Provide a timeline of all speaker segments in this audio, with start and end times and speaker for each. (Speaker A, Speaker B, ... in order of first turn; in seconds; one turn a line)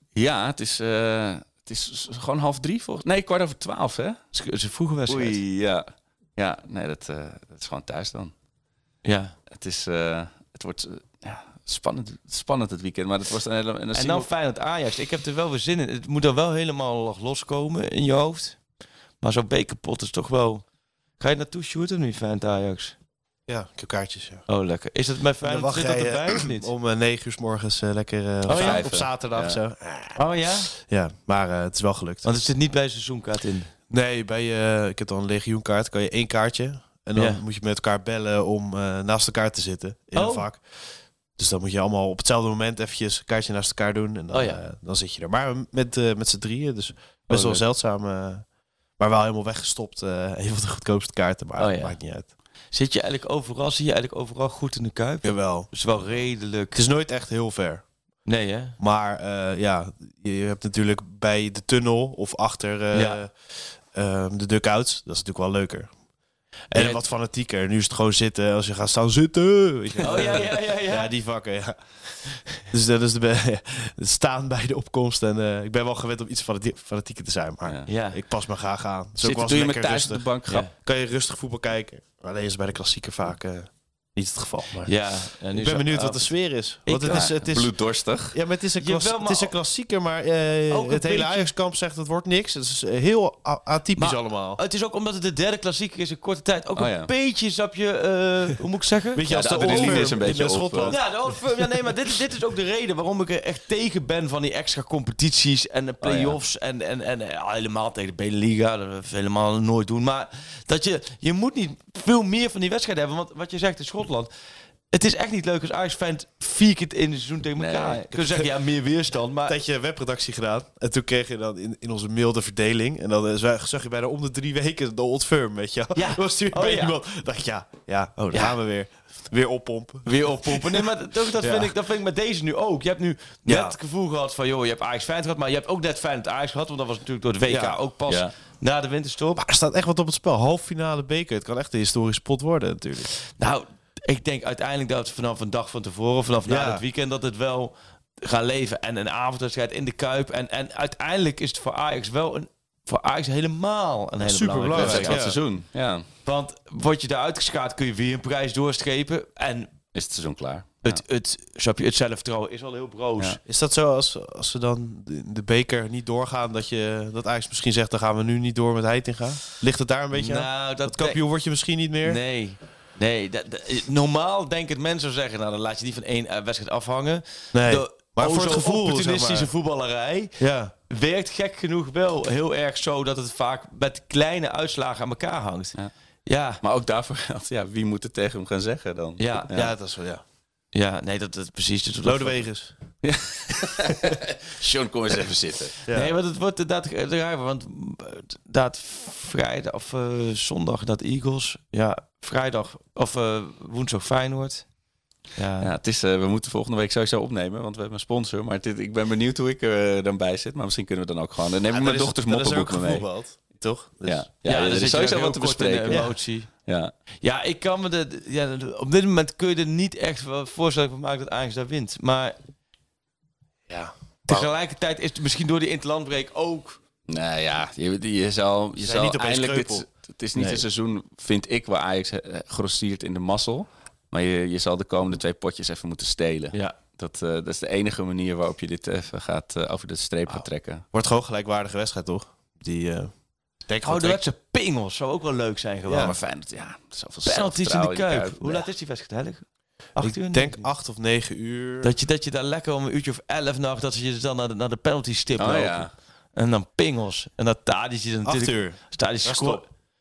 Speaker A: 0.1-4.2
Speaker B: 4.3-5.4
Speaker A: 5.1-5.8
Speaker A: 6.4-8.3
Speaker B: 9.1-9.4
Speaker A: 9.5-14.3
Speaker B: 13.9-18.6
Speaker B: 19.2-20.6
Speaker B: 21.2-22.9
Speaker C: 23.5-24.5
Speaker B: 24.5-26.7
Speaker C: 25.4-32.3
Speaker B: 28.4-28.9
Speaker A: 28.5-29.6
Speaker B: 30.1-30.7
Speaker B: 32.2-33.7
Speaker C: 33.9-52.3
Speaker B: 37.1-37.4
Speaker B: 40.1-40.5
Speaker B: 44.3-44.6
Speaker B: 47.3-47.6
Speaker B: 51.6-52.0
Speaker B: 52.7-56.8
Speaker C: 55.2-55.7
Speaker C: 56.7-57.9
Speaker B: 58.3-58.8
Speaker C: 58.8-66.0
Speaker B: 62.9-63.2
Speaker B: 66.7-67.0
Speaker C: 66.7-94.6
Speaker B: 70.0-71.1
Speaker B: 77.9-78.2
Speaker A: 79.2-80.7
Speaker B: 84.8-87.3
Speaker A: 87.1-88.4
Speaker B: 88.8-89.5
Speaker B: 90.7-91.5
Speaker B: 94.0-114.3
Speaker A: 96.8-97.1
Speaker C: 99.2-101.7
Speaker A: 99.3-101.0
Speaker A: 106.0-106.4
Speaker B: 114.9-119.6
Speaker A: 117.6-118.1
Speaker C: 118.1-118.5
Speaker C: 119.5-131.7
Speaker B: 126.0-126.9
Speaker B: 128.3-128.6
Speaker B: 130.1-139.4
Speaker C: 133.5-133.8
Speaker C: 137.5-137.8
Speaker C: 139.4-143.1
Speaker B: 143.4-155.3
Speaker C: 146.5-146.8
Speaker C: 154.2-155.4
Speaker A: 154.7-156.1
Speaker B: 156.2-159.7
Speaker A: 159.9-161.0
Speaker B: 160.8-163.4
Speaker C: 163.4-172.2
Speaker B: 170.1-171.2
Speaker B: 172.0-185.8
Speaker C: 177.5-179.5
Speaker C: 180.4-180.7
Speaker B: 186.3-186.6
Speaker A: 186.6-189.7
Speaker B: 189.2-189.7
Speaker C: 189.5-190.2
Speaker B: 190.7-192.4
Speaker C: 192.0-192.7
Speaker A: 193.0-195.8
Speaker C: 195.9-196.1
Speaker B: 195.9-204.7
Speaker B: 205.3-205.7
Speaker A: 205.6-213.1
Speaker C: 211.7-214.3
Speaker A: 213.8-216.9
Speaker B: 214.4-216.5
Speaker B: 217.2-222.4
Speaker C: 223.7-224.5
Speaker B: 224.3-226.8
Speaker A: 227.1-240.9
Speaker C: 228.8-229.9
Speaker C: 240.9-243.1
Speaker C: 243.7-244.2
Speaker B: 243.8-246.2
Speaker A: 245.9-248.7
Speaker B: 247.2-250.7
Speaker C: 250.0-251.9
Speaker B: 251.8-259.7
Speaker A: 255.4-255.9
Speaker C: 258.2-259.7